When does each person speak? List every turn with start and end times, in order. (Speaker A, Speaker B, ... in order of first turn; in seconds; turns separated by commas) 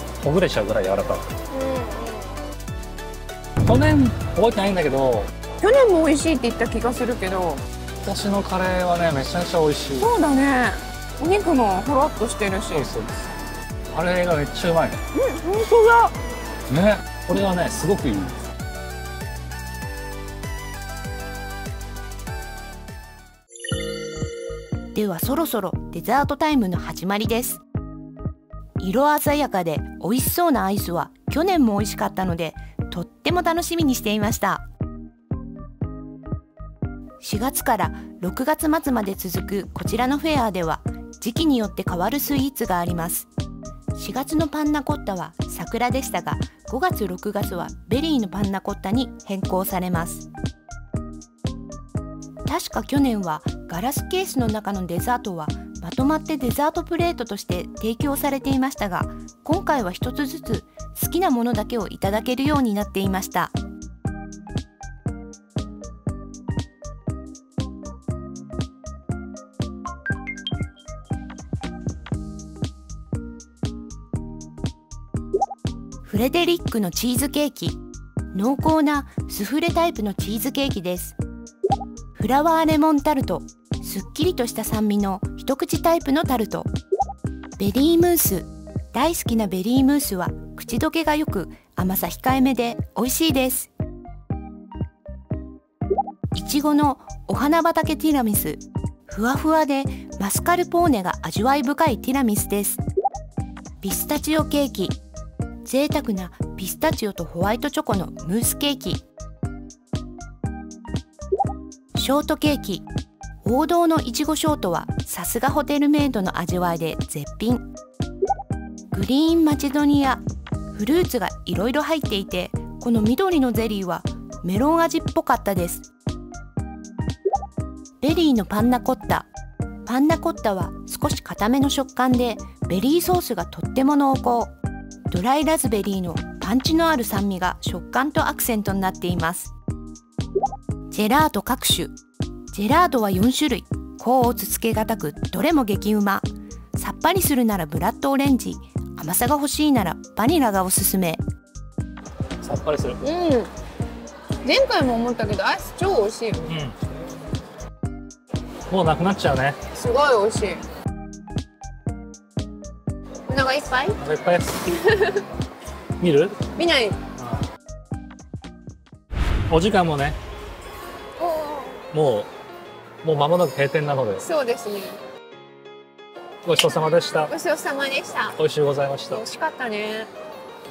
Speaker A: 0.2-1.3, Speaker B: 1.5-2.3, Speaker A: 3.6-5.3, Speaker B: 5.6-7.6, Speaker A: 8.0-10.1, Speaker B: 10.0-12.9, Speaker A: 12.7-13.3, Speaker A: 13.9-15.0, Speaker B: 15.1-16.1, Speaker A: 16.7-18.5, Speaker C: 24.9-27.6, Speaker C: 28.8-34.6, Speaker C: 37.2-43.3, Speaker C: 43.9-50.3, Speaker C: 52.5-63.5, Speaker C: 76.0-77.8, Speaker C: 78.3-81.2, Speaker C: 82.2-86.7, Speaker C: 87.6-93.7, Speaker C: 96.3-102.8, Speaker C: 103.8-105.0, Speaker C: 105.6-109.0, Speaker C: 111.9-112.8, Speaker C: 113.4-117.7, Speaker C: 118.9-125.9, Speaker C: 128.0-129.3, Speaker C: 129.8-134.5, Speaker C: 135.1-139.5, Speaker C: 140.9-142.0, Speaker C: 142.5-151.2, Speaker A: 152.4-153.0, Speaker B: 153.0-153.5, Speaker B: 154.4-156.5, Speaker A: 156.4-156.8, Speaker A: 158.7-159.6, Speaker B: 159.7-160.6, Speaker B: 163.3-164.0, Speaker A: 164.0-164.6, Speaker B: 164.7-165.2, Speaker A: 166.0-166.5, Speaker B: 166.5-167.0, Speaker A: 169.5-170.2, Speaker B: 171.2-171.8, Speaker A: 171.9-172.3, Speaker A: 173.0-174.3, Speaker B: 174.2-175.0, Speaker A: 176.4-177.3, Speaker B: 177.3-178.4, Speaker A: 178.4-179.2, Speaker B: 179.1-180.1